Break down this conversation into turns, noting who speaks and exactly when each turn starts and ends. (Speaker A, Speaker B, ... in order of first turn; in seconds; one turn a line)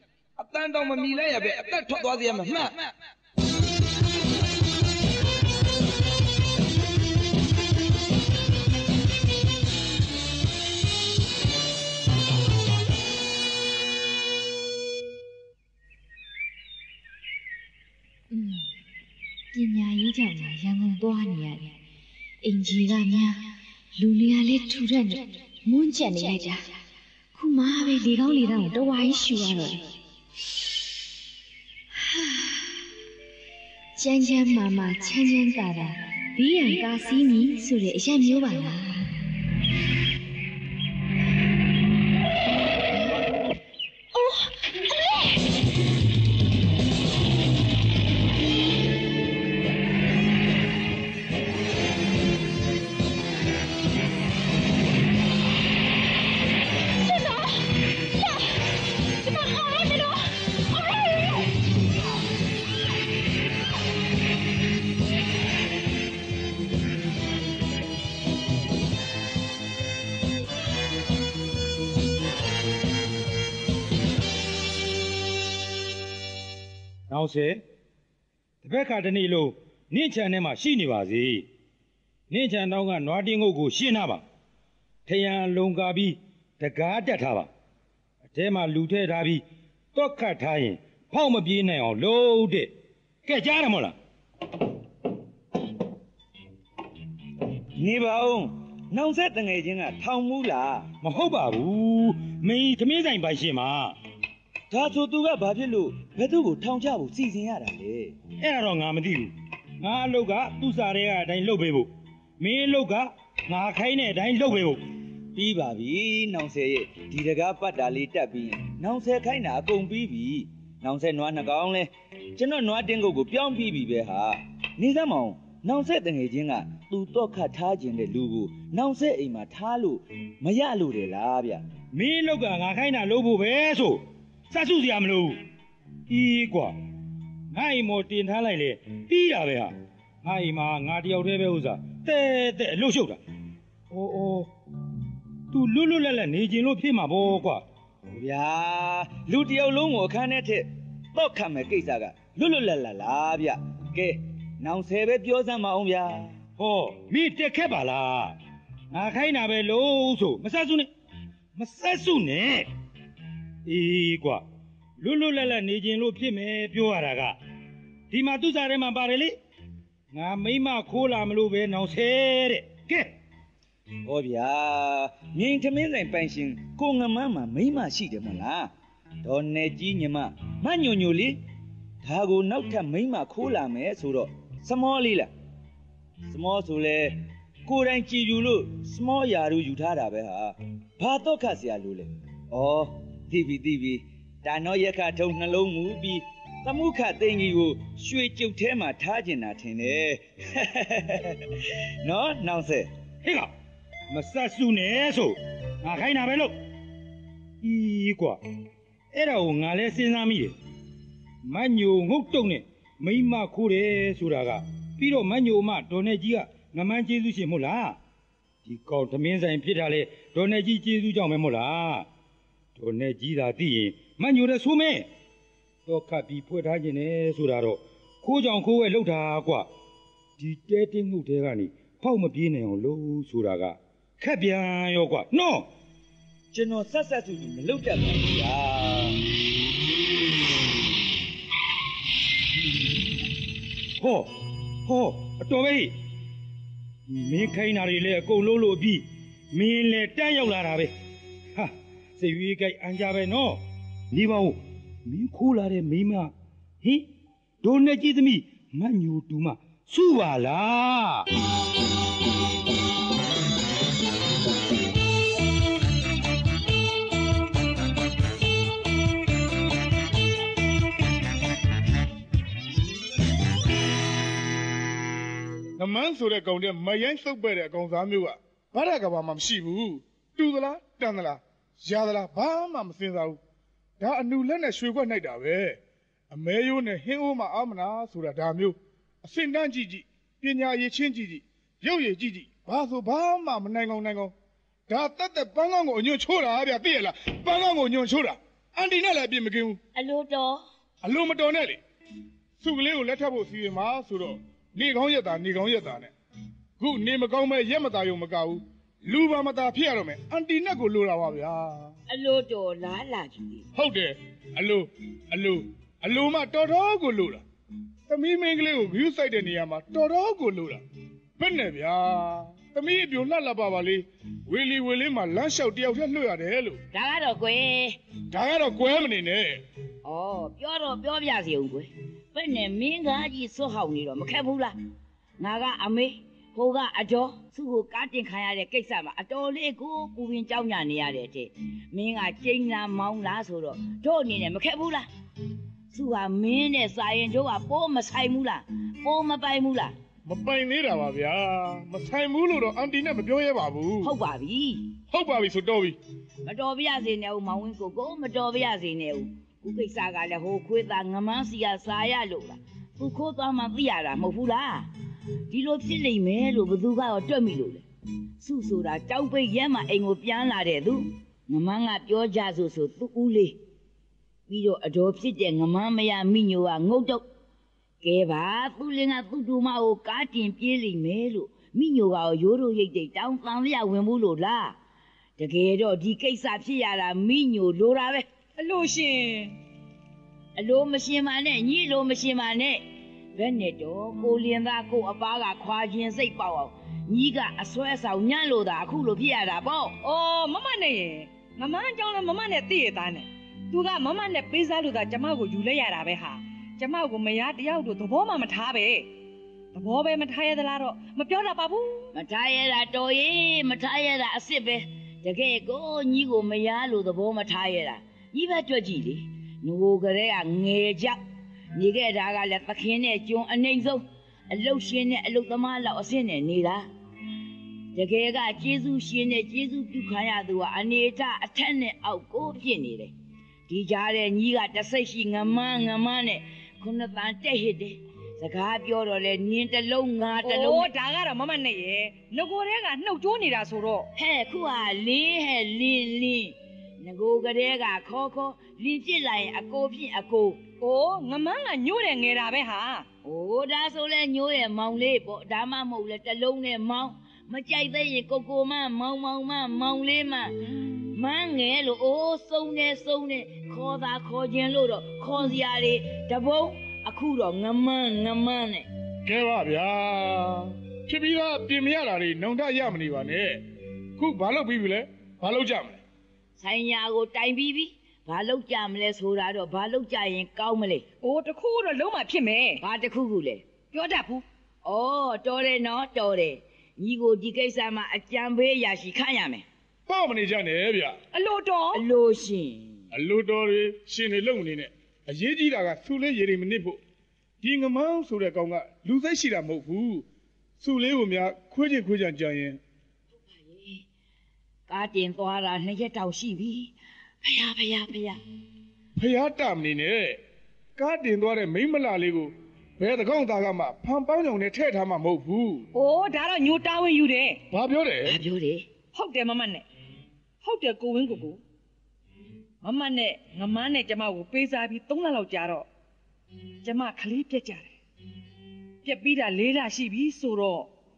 Speaker A: 0.4-2.9
Speaker B: 18.3-18.7
Speaker B: 19.5-21.8
Speaker B: 22.4-26.7
Speaker B: 27.3-29.9
Speaker B: 31.9-32.6
Speaker B: 34.0-39.1
Speaker B: 44.1-44.8
Speaker B: 57.0-57.6
Speaker B: 59.2-61.3
Speaker C: 77.1-77.6
Speaker C: 78.6-81.5
Speaker C: 82.3-84.2
Speaker C: 85.1-87.5
Speaker C: 88.3-89.4
Speaker C: 89.9-92.7
Speaker C: 93.2-94.0
Speaker D: 97.8-100.9
Speaker C: 101.0-103.9
Speaker D: 104.7-108.2
Speaker C: 108.4-109.3
Speaker C: 109.8-111.9
Speaker C: 112.4-114.8
Speaker D: 115.3-131.7
Speaker C: 131.9-135.4
Speaker C: 136.1-136.8
Speaker C: 137.5-139.7
Speaker C: 140.2-143.2
Speaker C: 143.9-144.5
Speaker C: 145.5-147.6
Speaker D: 148.1-156.4
Speaker C: 156.6-158.3
Speaker C: 158.9-160.9
Speaker C: 161.6-162.7
Speaker C: 163.7-164.4
Speaker C: 165.0-167.3
Speaker C: 168.1-169.4
Speaker C: 170.1-173.1
Speaker D: 174.1-178.7
Speaker D: 179.2-181.4
Speaker D: 182.0-185.3
Speaker D: 186.2-201.4
Speaker D: 202.0-202.9
Speaker C: 203.2-203.5
Speaker C: 204.1-206.6
Speaker C: 207.6-208.4
Speaker C: 209.1-210.6
Speaker C: 211.4-218.0
Speaker C: 218.6-222.1
Speaker C: 222.8-225.1
Speaker C: 225.9-229.7
Speaker C: 230.4-235.7
Speaker D: 236.5-239.2
Speaker C: 244.0-244.3
Speaker C: 244.9-245.9
Speaker C: 247.1-250.9
Speaker C: 251.6-253.6
Speaker C: 254.1-257.1
Speaker C: 257.6-261.3
Speaker E: 275.8-283.4
Speaker E: 284.0-285.8
Speaker E: 286.3-294.3
Speaker E: 294.9-299.8
Speaker F: 299.9-300.6
Speaker E: 301.0-301.8
Speaker E: 302.6-306.1
Speaker E: 306.8-311.9
Speaker F: 312.1-313.6
Speaker E: 313.8-317.4
Speaker E: 318.1-320.8
Speaker E: 321.4-326.8
Speaker F: 326.9-328.0
Speaker E: 328.3-329.6
Speaker F: 330.0-334.8
Speaker F: 335.4-345.1
Speaker F: 345.9-349.9
Speaker E: 350.2-354.1
Speaker F: 354.0-354.9
Speaker E: 355.1-356.0
Speaker F: 356.4-364.9
Speaker F: 365.5-367.8
Speaker F: 368.4-373.6
Speaker F: 374.5-377.2
Speaker F: 378.0-384.8
Speaker F: 385.4-388.3
Speaker G: 388.6-389.6
Speaker F: 390.6-392.8
Speaker F: 393.4-400.0
Speaker G: 400.0-409.1
Speaker G: 409.7-412.1
Speaker F: 412.1-421.2
Speaker F: 421.8-426.9
Speaker F: 427.9-433.1
Speaker F: 433.7-440.9
Speaker G: 440.4-444.1
Speaker F: 444.1-450.6
Speaker G: 450.8-453.1
Speaker F: 453.2-460.6
Speaker F: 461.1-468.9
Speaker E: 469.2-473.6
Speaker E: 474.2-476.0
Speaker F: 476.6-481.0
Speaker G: 481.2-482.8
Speaker F: 482.8-483.6
Speaker G: 483.9-484.4
Speaker F: 484.9-489.6
Speaker E: 490.1-491.2
Speaker G: 491.3-492.0
Speaker F: 491.9-492.9
Speaker E: 493.1-497.0
Speaker E: 497.6-500.2
Speaker E: 500.8-502.8
Speaker F: 503.6-504.0
Speaker F: 504.9-508.4
Speaker E: 509.2-510.4
Speaker E: 511.0-515.9
Speaker G: 515.9-517.6
Speaker E: 517.7-518.4
Speaker F: 518.3-518.9
Speaker G: 519.1-519.8
Speaker G: 520.6-521.6
Speaker G: 522.8-525.9
Speaker G: 526.8-527.9
Speaker G: 529.0-530.9